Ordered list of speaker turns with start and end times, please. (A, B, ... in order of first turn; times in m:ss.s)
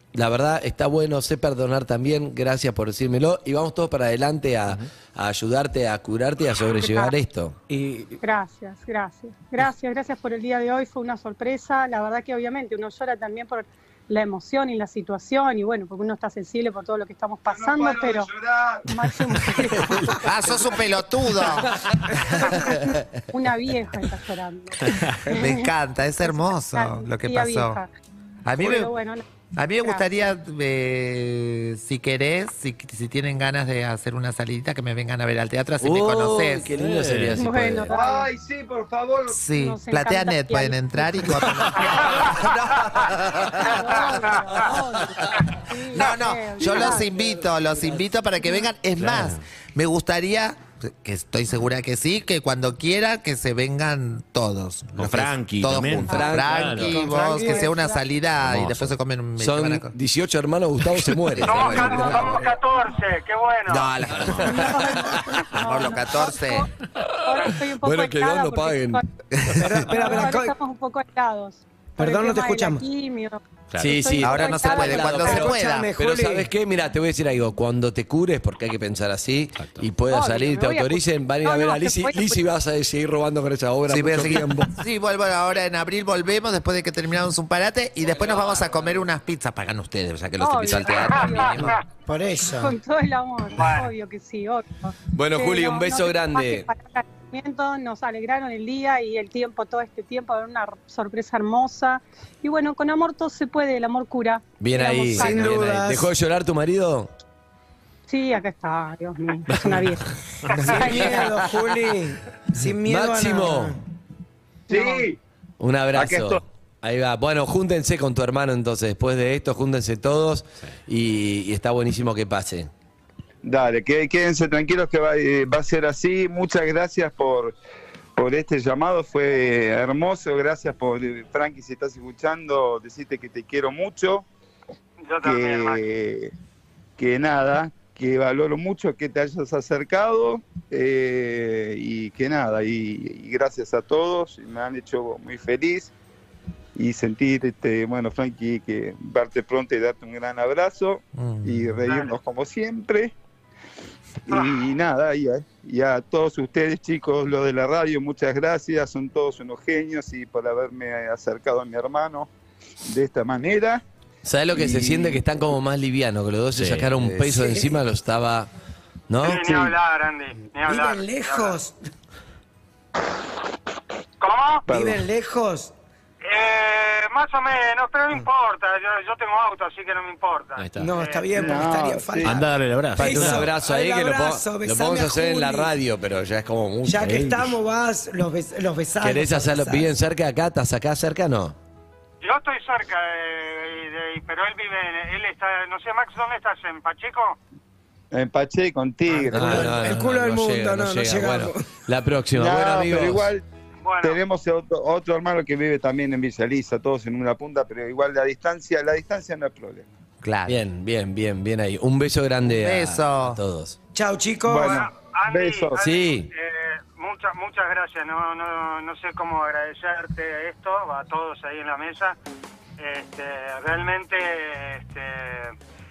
0:00.1-0:07.6 A
0:06.8-0:07.1 B
0:07.7-0:08.2 C
0:08.2-0:18.3 B
0:17.5-0:18.9 D
0:18.8-0:20.7 B
0:20.1-0:23.0 E
0:22.3-0:25.7 B
0:25.4-0:27.8 E
0:26.2-0:27.9 B
0:28.4-0:28.9 E
0:28.6-0:29.2 B
0:29.6-0:36.7 E
0:35.8-0:37.9 A
0:36.8-0:37.4 F
0:37.4-0:38.3 B
0:37.9-0:39.4 D
0:39.3-0:44.2 E
0:39.5-0:42.4 B
0:43.4-0:47.1 B
0:45.9-0:59.9 E
0:49.0-0:49.4 F
0:55.0-0:57.0 F
0:56.0-0:57.0 A
0:57.0-0:58.0 B
0:57.2-0:57.6 C
0:58.4-0:59.0 F
0:59.4-1:02.4 A
1:01.4-1:02.4 E
1:01.4-1:03.9 G
1:03.7-1:06.7 E
1:04.4-1:06.7 B
1:07.2-1:09.0 B
1:07.7-1:09.0 A
1:09.6-1:10.5 C
1:09.9-1:15.5 B
1:12.0-1:12.8 C
1:13.7-1:14.1 F
1:13.8-1:24.8 A
1:14.2-1:15.9 E
1:15.1-1:16.5 C
1:19.6-1:19.8 F
1:20.1-1:22.4 B
1:23.9-1:31.7 E
1:30.4-1:31.6 B
1:31.0-1:31.8 G
1:31.6-1:32.8 C
1:32.5-1:45.6 B
1:33.6-1:33.9 G
1:35.1-1:36.7 A
1:44.6-1:47.1 A
1:45.1-1:46.1 C
1:48.1-1:50.1 B
1:50.6-1:51.0 G
1:50.7-1:53.8 C
1:50.8-1:51.2 B
1:52.8-1:53.8 A
1:54.7-1:55.2 D
1:55.6-2:02.7 A
1:55.9-1:56.4 D
2:03.4-2:07.6 D
2:08.2-2:14.2 D
2:15.1-2:15.8 G
2:15.2-2:16.3 D
2:17.0-2:25.9 D
2:26.8-2:33.2 D
2:31.2-2:31.8 E
2:31.9-2:32.1 G
2:34.3-2:42.3 D
2:34.3-2:34.6 G
2:42.9-2:43.8 D
2:44.2-2:48.5 A
2:44.5-2:45.2 D
2:46.6-2:47.2 F
2:47.2-2:47.8 C
2:49.1-2:49.5 A
2:49.2-2:51.6 G
2:49.3-2:49.7 D
2:50.6-2:51.7 C
2:54.2-2:54.7 G
2:54.7-2:55.0 D
2:54.7-2:55.7 C
2:56.2-3:01.4 G
3:00.6-3:00.9 F
3:00.8-3:02.4 C
3:01.4-3:02.4 D
3:02.2-3:03.5 F
3:03.0-3:05.7 C
3:03.0-3:07.3 A
3:06.8-3:09.9 C
3:07.1-3:07.4 F
3:09.0-3:11.6 A
3:12.2-3:17.4 G
3:18.1-3:20.0 D
3:19.2-3:21.7 C
3:19.3-3:23.3 A
3:22.3-3:23.4 D
3:23.8-3:24.2 G
3:24.0-3:29.9 D
3:30.2-3:30.6 E
3:30.5-3:33.8 A
3:32.4-3:33.4 E
3:34.0-3:34.8 C
3:34.4-3:35.8 D
3:34.6-3:42.2 G
3:35.8-3:36.3 A
3:42.8-3:45.6 G